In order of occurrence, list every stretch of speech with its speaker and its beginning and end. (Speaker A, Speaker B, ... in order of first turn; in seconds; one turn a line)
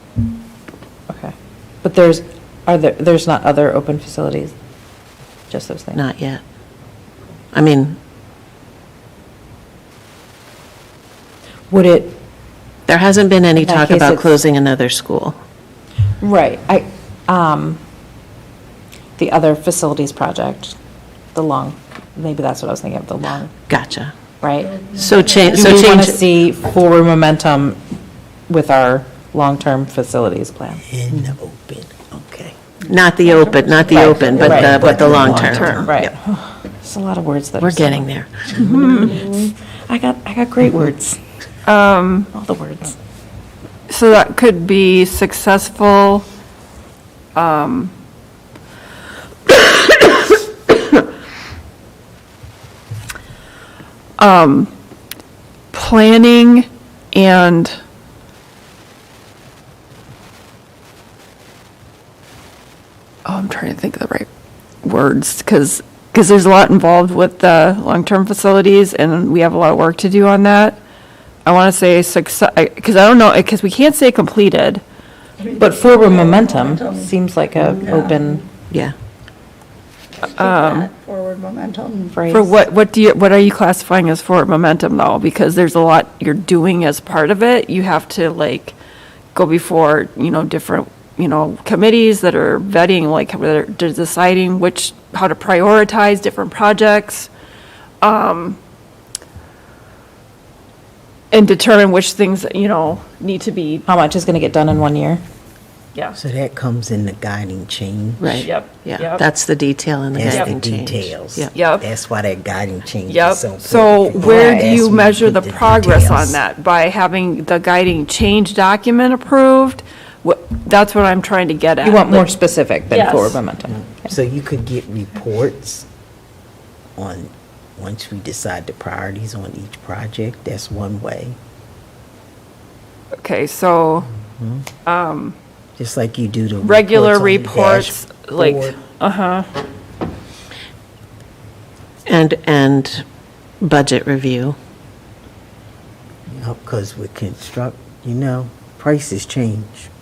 Speaker A: 1.1-4.5
Speaker A: 5.5-6.0
Speaker B: 5.9-6.4
Speaker B: 7.5-8.0
Speaker A: 11.7-12.2
Speaker B: 12.9-15.4
Speaker A: 13.6-14.3
Speaker A: 16.2-17.8
Speaker A: 19.2-20.8
Speaker A: 21.3-23.5
Speaker B: 23.7-24.1
Speaker A: 24.4-27.8
Speaker C: 24.8-25.4
Speaker B: 24.9-26.2
Speaker A: 28.5-30.8
Speaker D: 30.9-32.5
Speaker B: 32.9-36.0
Speaker A: 33.9-41.2
Speaker D: 34.0-35.9
Speaker E: 34.8-35.9
Speaker B: 37.6-38.3
Speaker E: 41.6-42.3
Speaker A: 42.3-42.9
Speaker E: 43.9-46.2
Speaker E: 47.3-47.9
Speaker E: 49.5-50.8
Speaker E: 54.2-54.7
Speaker E: 55.7-57.8
Speaker E: 63.2-64.3
Speaker E: 64.8-70.8
Speaker E: 71.4-74.8
Speaker C: 75.4-77.1
Speaker A: 75.6-78.4
Speaker C: 77.9-78.1
Speaker E: 80.2-80.9
Speaker C: 80.3-82.1
Speaker A: 82.1-82.5
Speaker E: 82.3-88.8
Speaker E: 89.3-97.3
Speaker E: 98.0-98.6
Speaker E: 101.3-103.8
Speaker A: 103.8-105.2
Speaker D: 106.1-108.5
Speaker B: 108.2-111.5
Speaker E: 108.4-109.2
Speaker D: 110.1-116.4
Speaker E: 111.5-111.8
Speaker E: 113.1-122.3
Speaker A: 114.2-114.8
Speaker A: 121.8-123.8
Speaker E: 122.9-123.4
Speaker D: 123.7-125.8
Speaker D: 127.0-131.3
Speaker E: 133.2-134.1
Speaker D: 134.4-134.7
Speaker E: 134.8-135.3
Speaker D: 135.8-138.8
Speaker E: 136.6-139.5
Speaker B: 142.1-143.0
Speaker B: 143.6-144.6
Speaker D: 146.3-149.9